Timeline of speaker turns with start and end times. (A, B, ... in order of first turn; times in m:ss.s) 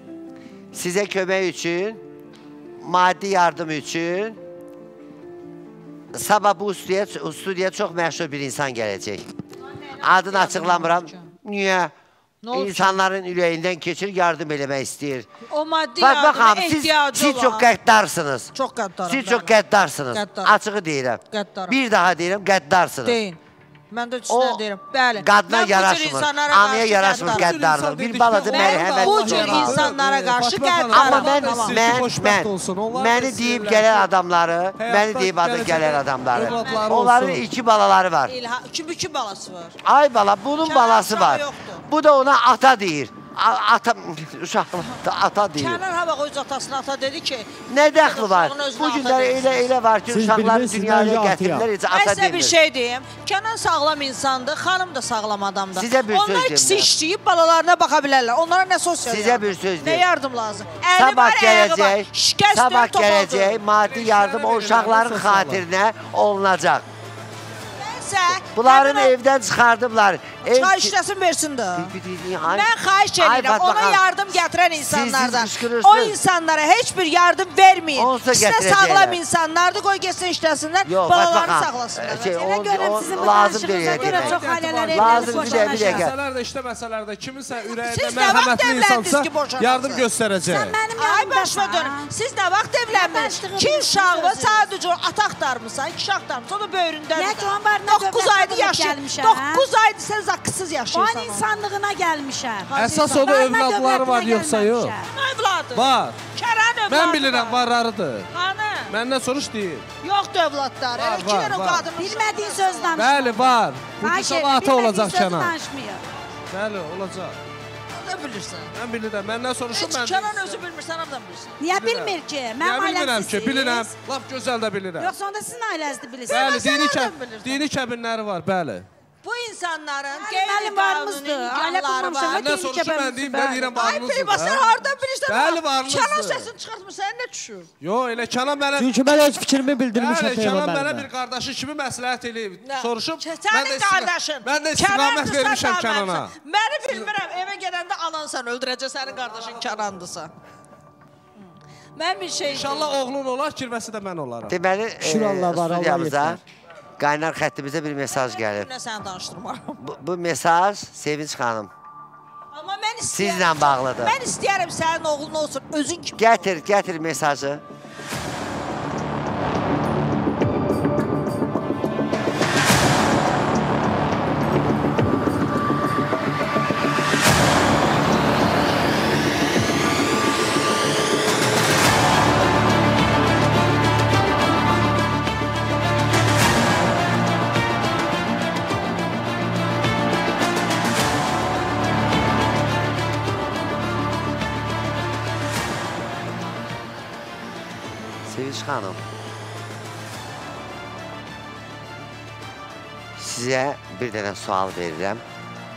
0:00.7-0:02.0 A
0:02.8-0:04.4 A
0:06.1-0:09.2 A
0:10.0-0:11.9 A
0:10.0-0:11.3 B
0:12.4-0:13.0 B
0:12.5-0:15.3 A
0:15.5-0:17.7 B
0:16.0-0:18.5 A
0:18.5-0:19.6 B
0:19.0-0:23.2 A
0:20.1-0:20.5 B
0:21.3-0:21.8 B
0:23.0-0:23.4 B
0:23.9-0:27.5 B
0:24.3-0:24.6 A
0:25.2-0:29.8 A
0:27.2-0:34.1 C
0:28.4-0:31.8 B
0:30.9-0:38.3 A
0:34.8-0:37.4 C
0:36.3-0:36.9 B
0:38.2-0:39.8 B
0:39.8-0:45.8 A
0:40.6-0:41.8 B
0:45.5-0:49.7 B
0:47.7-0:52.6 A
0:50.1-0:51.7 D
0:51.9-1:03.6 B
0:55.7-0:56.9 A
0:59.0-1:00.0 A
1:01.0-1:06.9 A
1:03.7-1:05.6 C
1:07.8-1:09.2 B
1:08.5-1:10.9 A
1:10.4-1:11.9 B
1:11.8-1:14.0 A
1:12.4-1:22.3 B
1:14.8-1:16.2 A
1:17.9-1:19.2 A
1:20.8-1:26.2 A
1:22.3-1:26.1 E
1:23.9-1:30.8 C
1:27.8-1:30.1 B
1:30.4-1:32.1 E
1:31.0-1:41.6 B
1:32.9-1:34.7 E
1:37.1-1:39.7 E
1:40.9-1:45.1 E
1:42.7-1:43.3 B
1:42.7-1:45.0 C
1:45.0-1:47.7 B
1:45.7-1:46.2 C
1:46.9-1:48.3 C
1:48.3-1:48.9 B
1:48.9-1:49.9 C
1:50.0-1:53.1 B
1:51.0-1:51.9 C
1:51.9-1:56.0 E
1:53.0-1:55.6 C
1:56.5-1:57.4 C
1:57.9-1:58.7 B
1:58.7-2:00.6 C
1:59.7-2:01.6 B
2:01.6-2:04.0 E
2:01.7-2:05.1 C
2:05.0-2:06.6 E
2:06.3-2:07.6 B
2:06.3-2:08.9 C
2:09.2-2:12.5 B
2:10.1-2:13.8 E
2:12.3-2:16.5 C
2:13.7-2:17.7 B
2:17.8-2:19.0 C
2:18.7-2:21.1 D
2:19.9-2:26.3 C
2:22.6-2:30.3 B
2:32.0-2:33.0 B
2:32.5-2:34.6 C
2:34.5-2:36.4 A
2:35.0-2:36.4 D
2:37.0-2:38.7 A
2:38.1-2:39.8 B
2:39.8-2:41.7 A
2:42.5-2:46.5 B
2:43.1-2:44.1 A
2:46.2-2:47.6 A
3:18.2-3:19.0 A
3:23.2-3:25.2 A